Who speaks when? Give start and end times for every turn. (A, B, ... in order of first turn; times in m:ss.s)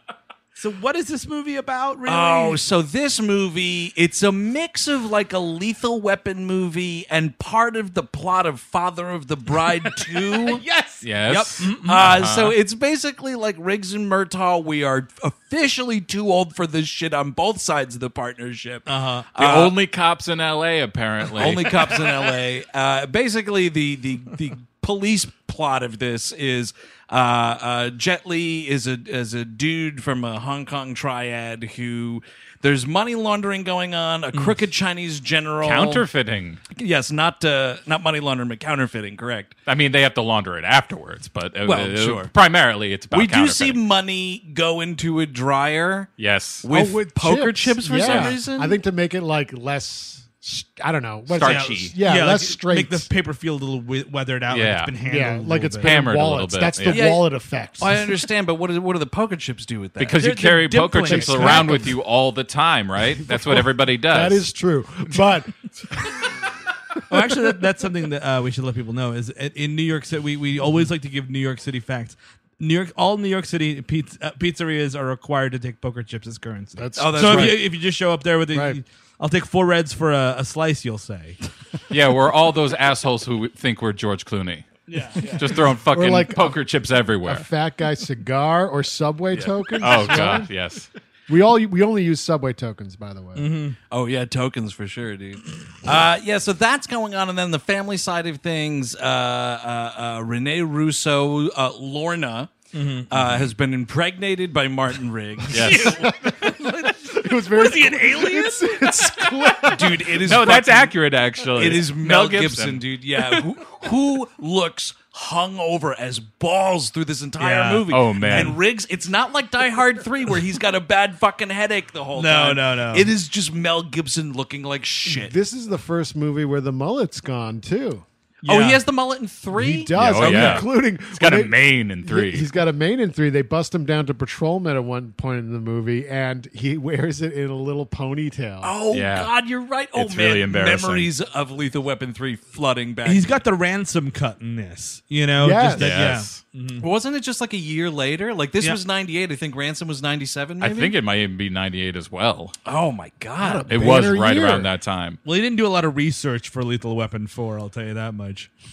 0:00.6-0:02.6 A
0:02.1-0:10.6 B
0:09.9-0:12.1 A
0:11.0-0:12.6 C
0:11.8-0:19.8 B
0:18.9-0:19.3 A
0:19.4-0:21.9 C
0:21.3-0:36.0 B
0:35.6-0:36.6 C
0:36.7-0:39.6 B
0:39.7-0:43.8 C
0:41.6-0:42.3 B
0:43.1-0:48.8 B
0:46.2-0:46.7 C
0:46.7-0:53.1 D
0:51.3-0:52.0 C
0:51.4-0:56.0 A
0:54.5-0:54.9 C
0:55.0-0:58.1 D
0:55.8-0:57.1 C
0:56.9-0:57.3 B
0:57.8-1:00.2 B
1:00.0-1:04.5 C
1:00.2-1:01.9 A
1:01.1-1:02.0 D
1:03.2-1:06.3 D
1:07.1-1:21.4 A
1:16.8-1:17.6 D
1:17.0-1:17.6 B
1:18.5-1:18.8 D
1:21.9-1:24.7 C
1:24.9-1:25.4 A
1:25.4-1:27.5 C
1:25.4-1:26.7 D
1:27.2-1:30.5 D
1:29.8-1:30.9 C
1:31.3-1:33.5 D
1:33.4-1:33.8 A
1:33.9-1:42.5 B
1:42.7-1:43.1 A
1:43.1-1:46.0 B
1:45.5-1:49.6 A
1:45.5-1:46.0 C
1:45.9-1:50.2 D
1:49.6-2:05.4 B
1:50.2-1:52.8 C
1:57.4-1:58.6 A
1:57.9-1:58.6 C
2:02.1-2:03.1 A
2:05.0-2:08.0 D
2:08.4-2:08.8 A
2:08.5-2:10.7 B
2:09.5-2:18.8 D
2:10.0-2:12.5 C
2:18.6-2:23.4 B
2:18.9-2:19.3 C
2:20.0-2:21.1 C
2:23.0-2:26.9 A
2:25.4-2:26.2 D
2:25.8-2:26.4 C
2:26.8-2:31.0 B
2:30.6-2:32.6 C
2:32.7-2:34.0 B
2:33.4-2:34.7 D
2:33.7-2:35.2 C
2:35.2-2:38.5 A